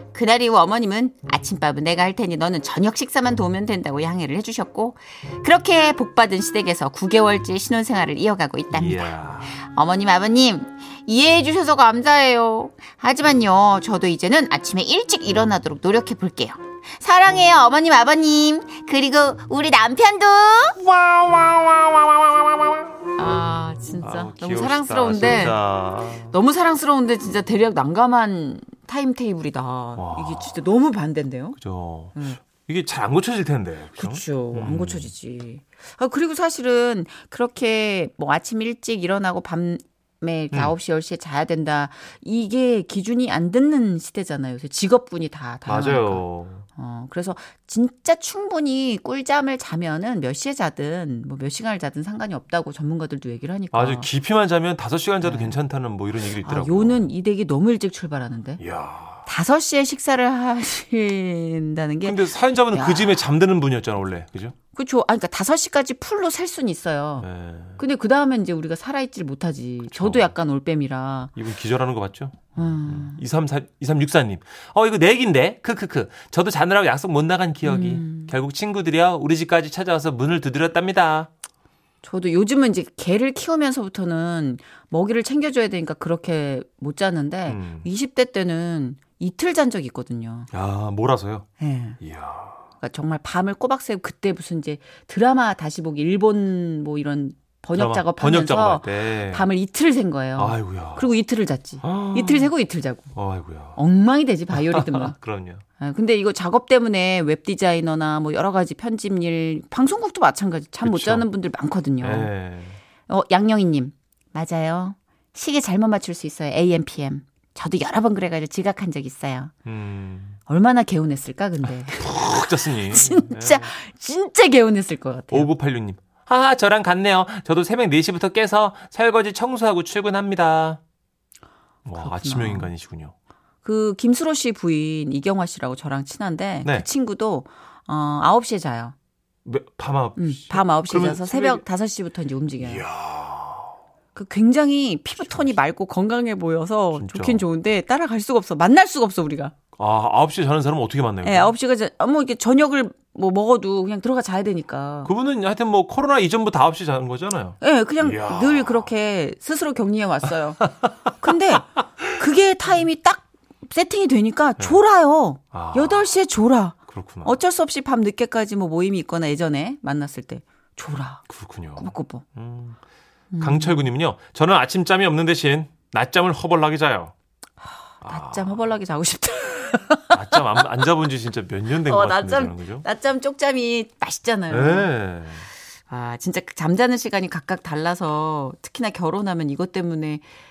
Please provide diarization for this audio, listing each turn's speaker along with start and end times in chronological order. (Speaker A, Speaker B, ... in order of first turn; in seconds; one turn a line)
Speaker A: 0.1-20.8
Speaker B: 8.7-9.6
Speaker B: 20.8-22.9
Speaker A: 23.1-25.6
Speaker B: 24.0-26.3
Speaker A: 26.3-31.6
Speaker B: 29.9-30.5
Speaker B: 31.6-35.1
Speaker A: 32.1-32.4
Speaker A: 34.0-46.2
Speaker B: 45.6-46.6
Speaker A: 46.8-54.1
Speaker B: 53.7-57.0
Speaker A: 55.2-55.6
Speaker A: 56.4-58.6
Speaker B: 58.6-59.2
Speaker A: 59.2-63.2
Speaker B: 62.0-64.5
Speaker A: 64.7-67.3
Speaker B: 67.2-67.8
Speaker A: 67.8-71.3
Speaker B: 69.9-70.3
Speaker B: 71.3-81.3
Speaker A: 72.5-73.2
Speaker A: 77.6-78.3
Speaker A: 82.0-90.5
Speaker B: 87.5-87.9
Speaker B: 90.5-91.5
Speaker A: 91.6-92.0
Speaker B: 92.0-92.6
Speaker A: 92.8-103.1
Speaker B: 97.7-99.5
Speaker B: 100.3-101.1
Speaker B: 101.8-102.5
Speaker B: 103.1-103.8
Speaker A: 103.8-105.1
Speaker B: 104.5-105.6
Speaker A: 105.8-112.3
Speaker B: 110.8-111.2
Speaker B: 112.0-112.8
Speaker A: 113.1-119.5
Speaker B: 119.7-120.4
Speaker A: 120.5-125.5
Speaker B: 121.9-123.7
Speaker B: 125.3-130.8
Speaker B: 131.8-133.1
Speaker A: 132.0-132.7
Speaker A: 133.6-138.9
Speaker B: 139.4-141.6
Speaker A: 140.2-142.8
Speaker B: 142.6-143.8
Speaker A: 144.1-149.5
Speaker B: 145.2-145.5
Speaker B: 146.9-147.4
Speaker B: 149.8-151.5
Speaker A: 151.2-155.1
Speaker B: 155.0-158.9
Speaker A: 157.6-160.6
Speaker B: 160.6-160.9
Speaker A: 161.2-171.2
Speaker B: 165.5-166.1
Speaker B: 166.9-167.3
Speaker B: 171.3-172.8
Speaker A: 171.8-172.2
Speaker A: 173.3-173.8
Speaker B: 173.4-177.1
Speaker A: 178.0-180.2
Speaker B: 178.0-178.6
Speaker B: 180.1-182.8
Speaker A: 181.8-184.9
Speaker B: 184.5-185.5
Speaker A: 185.9-190.2